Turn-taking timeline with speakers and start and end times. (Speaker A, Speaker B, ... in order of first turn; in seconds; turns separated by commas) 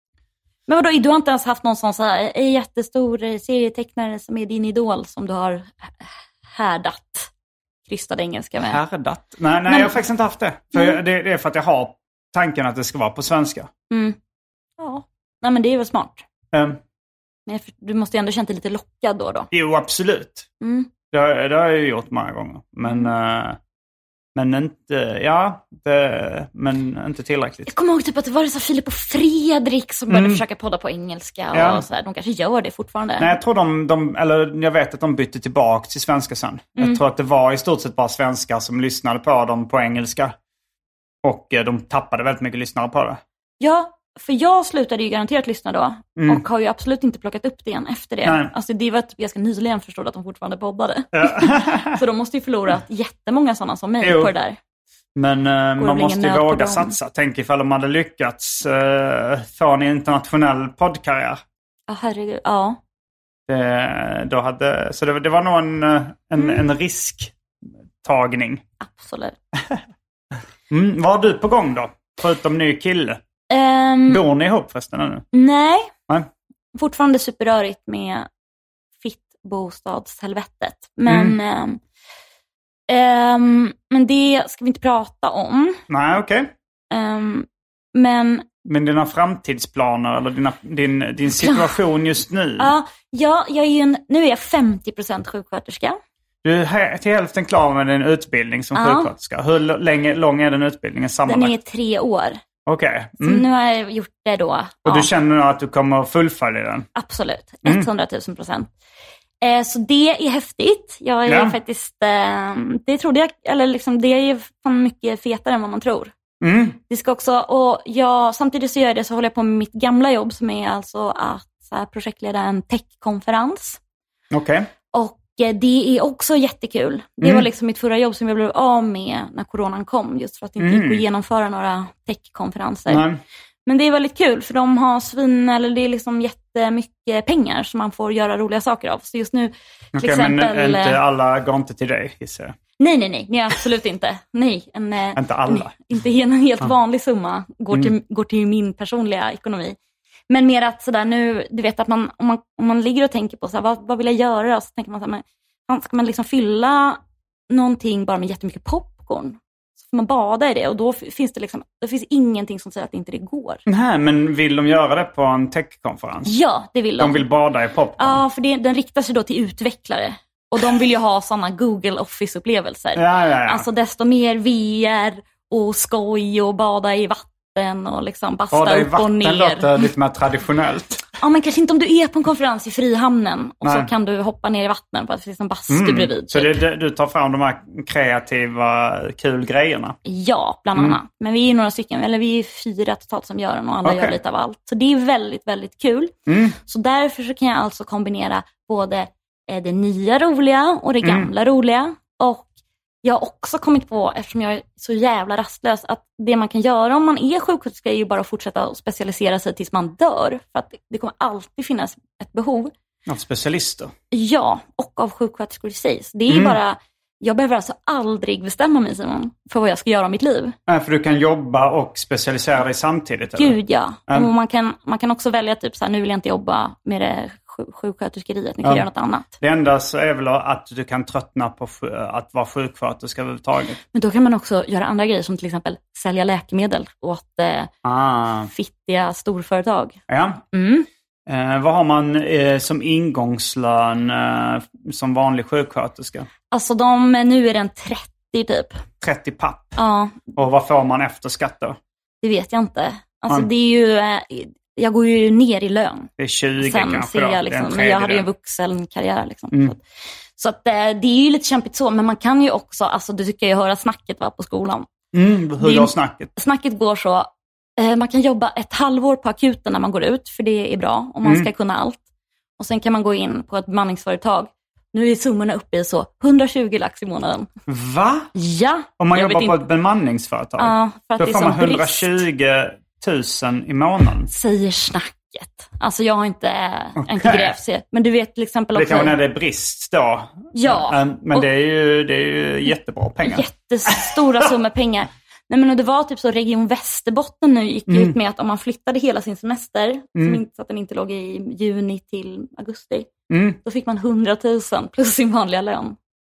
Speaker A: 0.7-7.3, Speaker A: 7.9-8.8, Speaker B: 8.6-13.7, Speaker A: 9.7-9.9, Speaker A: 13.9-14.2, Speaker A: 14.8-16.2, Speaker B: 16.5-16.8, Speaker A: 17.5-19.5, Speaker B: 19.5-20.5, Speaker A: 20.6-20.9, Speaker B: 21.1-23.6, Speaker B: 24.3-27.7, Speaker A: 27.7-33.3, Speaker B: 30.1-30.4, Speaker B: 31.5-31.8, Speaker B: 33.2-40.3, Speaker B: 41.2-43.2, Speaker A: 43.6-54.6, Speaker B: 46.2-46.4, Speaker B: 48.2-48.5, Speaker B: 51.1-52.0, Speaker B: 54.0-54.3, Speaker B: 55.1-61.4, Speaker A: 55.8-56.9, Speaker A: 61.9-62.8, Speaker B: 63.5-67.3, Speaker A: 66.4-66.6, Speaker B: 68.0-68.6, Speaker A: 68.8-69.4, Speaker B: 70.7-73.2, Speaker A: 73.5-74.2, Speaker B: 74.1-75.2, Speaker A: 75.3-75.9, Speaker A: 76.7-78.3, Speaker A: 79.0-81.8, Speaker B: 81.1-81.4, Speaker A: 82.9-85.8, Speaker B: 85.9-86.5, Speaker A: 86.9-88.5, Speaker B: 88.6-92.7, Speaker A: 91.3-91.8, Speaker A: 92.6-96.0, Speaker B: 96.4-101.5, Speaker A: 98.7-99.1, Speaker A: 101.3-102.4, Speaker B: 102.7-103.4, Speaker A: 103.2-105.1, Speaker B: 104.8-106.9, Speaker A: 107.0-108.7, Speaker A: 109.4-116.1, Speaker B: 111.2-111.6, Speaker B: 116.4-116.8, Speaker A: 116.9-123.8, Speaker B: 124.3-124.7, Speaker A: 124.9-133.0, Speaker B: 127.2-127.5, Speaker B: 130.6-131.0, Speaker B: 132.9-133.2, Speaker A: 133.7-141.0, Speaker B: 139.9-142.6, Speaker A: 142.8-149.8, Speaker B: 145.2-145.7, Speaker A: 150.3-157.0, Speaker A: 157.5-163.6, Speaker B: 163.7-166.3, Speaker A: 166.2-167.2, Speaker B: 167.0-168.2, Speaker A: 168.0-179.8, Speaker B: 172.9-173.7, Speaker B: 178.5-181.1, Speaker A: 181.2-186.6, Speaker B: 183.6-183.9, Speaker B: 185.7-190.0, Speaker A: 190.1-196.1, Speaker B: 190.7-191.0, Speaker B: 193.8-194.2, Speaker B: 196.3-196.6, Speaker A: 196.6-202.5, Speaker B: 201.0-201.3, Speaker A: 203.0-212.7, Speaker B: 213.1-213.9, Speaker A: 214.1-220.5, Speaker B: 216.3-216.6, Speaker B: 220.7-223.6, Speaker A: 223.4-229.3, Speaker B: 229.4-233.8, Speaker A: 233.9-237.7, Speaker B: 237.8-238.5, Speaker A: 238.5-240.0, Speaker B: 240.1-240.4, Speaker A: 240.5-240.9, Speaker B: 241.3-246.3, Speaker A: 246.5-248.8, Speaker B: 249.0-249.8, Speaker A: 249.8-250.3, Speaker B: 250.3-251.8, Speaker A: 252.2-259.8, Speaker B: 256.2-258.3, Speaker A: 260.4-264.9, Speaker B: 265.1-266.3, Speaker A: 265.6-272.0, Speaker B: 271.2-271.5, Speaker A: 272.6-277.5, Speaker B: 277.7-278.3, Speaker A: 278.3-279.6, Speaker B: 279.0-284.3, Speaker A: 280.6-282.2, Speaker A: 284.3-289.1, Speaker B: 287.0-287.6, Speaker B: 288.7-294.5, Speaker A: 290.5-291.4, Speaker A: 293.2-303.1, Speaker B: 297.9-298.1, Speaker B: 300.1-300.4, Speaker B: 303.3-303.6, Speaker A: 303.6-305.9